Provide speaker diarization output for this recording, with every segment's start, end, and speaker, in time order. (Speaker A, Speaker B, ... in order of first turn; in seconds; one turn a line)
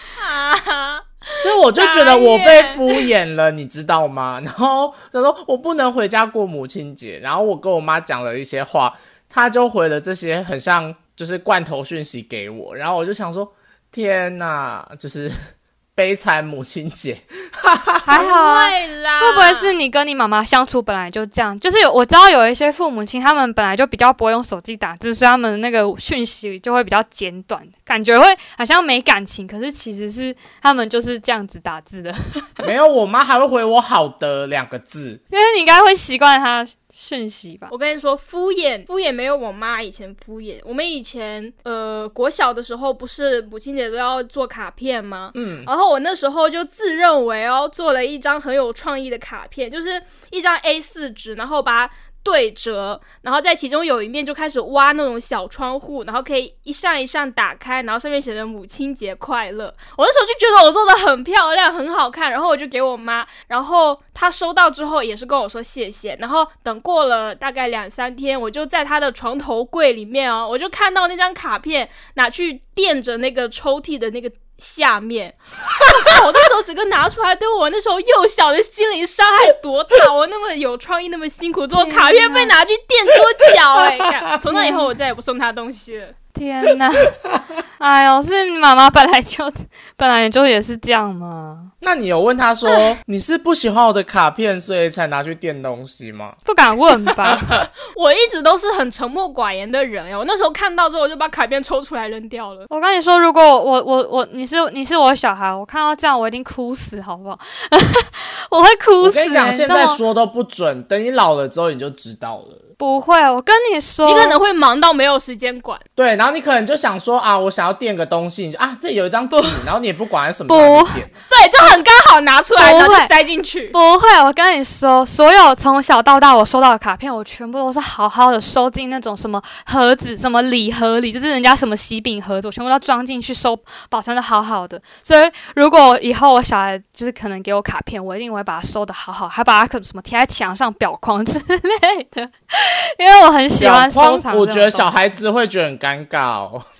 Speaker A: 0.1-3.1
Speaker B: 1.4-15.3
Speaker B: 15.9-18.2
Speaker C: 18.0-32.7
Speaker A: 18.1-19.7
Speaker B: 32.6-35.2
Speaker C: 35.3-37.7
Speaker A: 37.7-86.2
Speaker B: 45.3-45.7
Speaker C: 81.8-82.5
Speaker C: 84.4-84.9
Speaker C: 86.3-87.2
Speaker C: 87.8-91.7
Speaker B: 91.8-96.4
Speaker C: 96.5-97.6
Speaker A: 97.9-102.7
Speaker C: 102.7-110.0
Speaker B: 109.0-112.6
Speaker C: 112.8-114.4
Speaker A: 114.0-115.8
Speaker B: 116.0-121.1
Speaker C: 119.3-119.6
Speaker C: 120.5-121.0
Speaker A: 121.3-123.7
Speaker C: 122.6-123.1
Speaker C: 123.7-145.1
Speaker B: 143.6-146.7